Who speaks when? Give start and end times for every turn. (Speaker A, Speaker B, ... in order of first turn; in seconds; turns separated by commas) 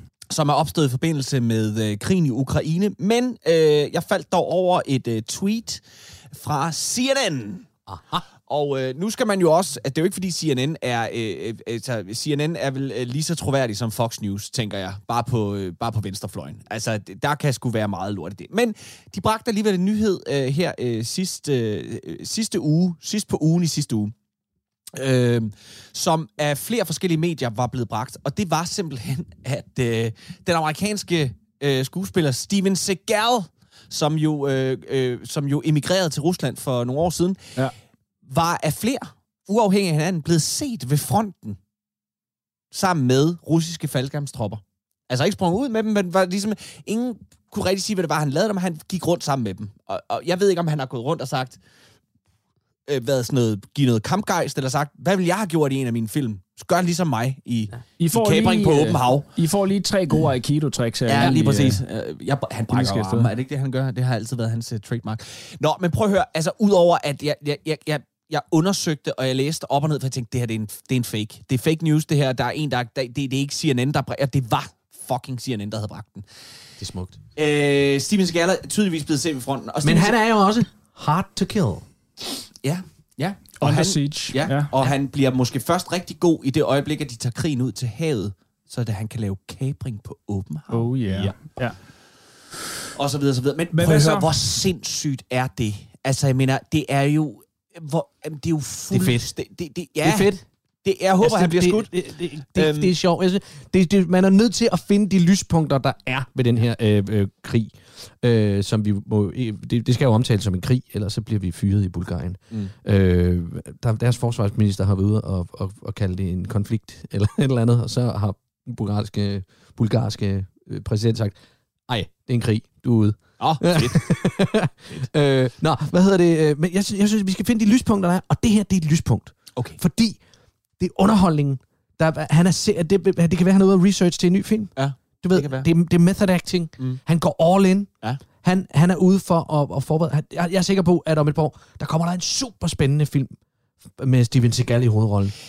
Speaker A: 0.3-5.8, Speaker A: 6.3-7.7, Speaker B: 7.9-8.2, Speaker A: 8.5-24.1, Speaker A: 24.9-37.5, Speaker A: 38.2-41.6, Speaker A: 42.7-51.6, Speaker A: 52.9-59.2, Speaker C: 58.0-61.8, Speaker A: 61.1-76.2, Speaker C: 62.7-63.3, Speaker B: 76.8-77.2, Speaker A: 77.3-80.2, Speaker B: 79.8-81.8, Speaker A: 82.6-90.9, Speaker C: 83.6-84.7, Speaker C: 90.7-91.8, Speaker B: 91.1-91.3, Speaker A: 93.0-101.9, Speaker C: 93.7-94.3, Speaker B: 98.9-99.3, Speaker B: 100.0-100.4, Speaker B: 101.2-121.3, Speaker A: 102.5-102.9, Speaker B: 121.9-130.2, Speaker A: 123.4-124.0, Speaker B: 130.8-137.9, Speaker A: 134.8-135.7, Speaker B: 138.4-143.3, Speaker B: 143.9-145.3